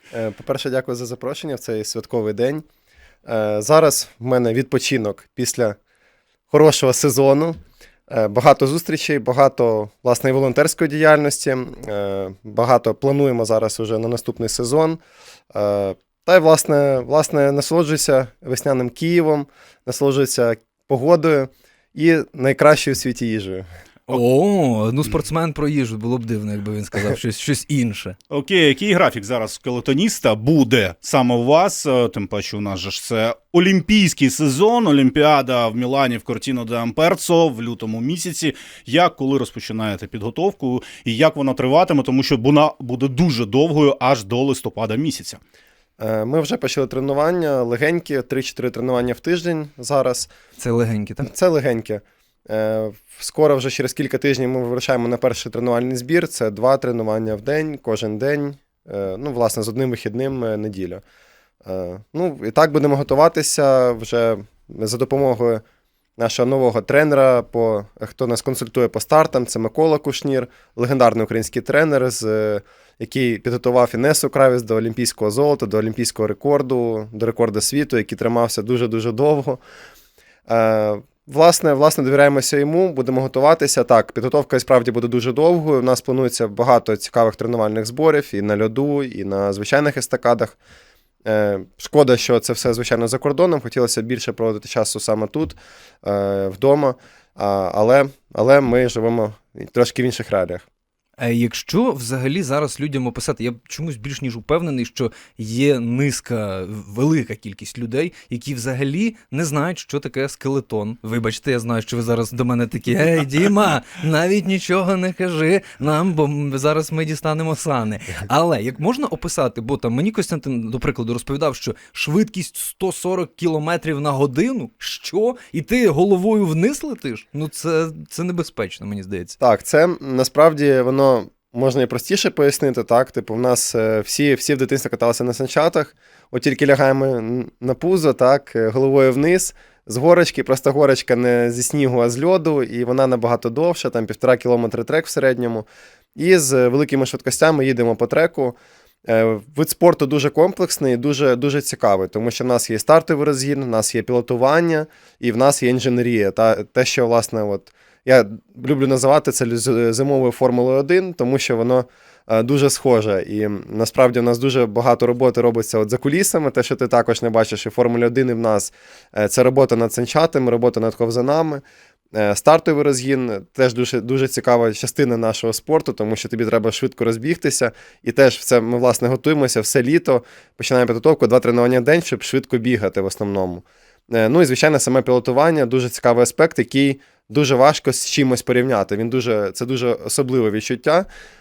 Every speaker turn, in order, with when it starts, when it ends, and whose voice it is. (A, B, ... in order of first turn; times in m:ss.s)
0:00.1-0:02.6 A
0:03.2-0:05.8 A
0:06.5-0:07.6 A
0:08.1-0:15.0 A
0:15.5-0:23.6 A
0:24.1-0:28.2 B
0:28.3-0:45.4 C
0:46.0-0:50.3 A
0:50.6-0:51.3 B
0:51.2-1:01.0 A
1:01.6-1:05.6 A
1:06.2-1:19.6 A
1:20.5-1:30.6 A
1:31.2-1:40.6 A
1:41.2-2:09.4 B
2:09.4-2:51.6 A
2:52.1-3:11.1 A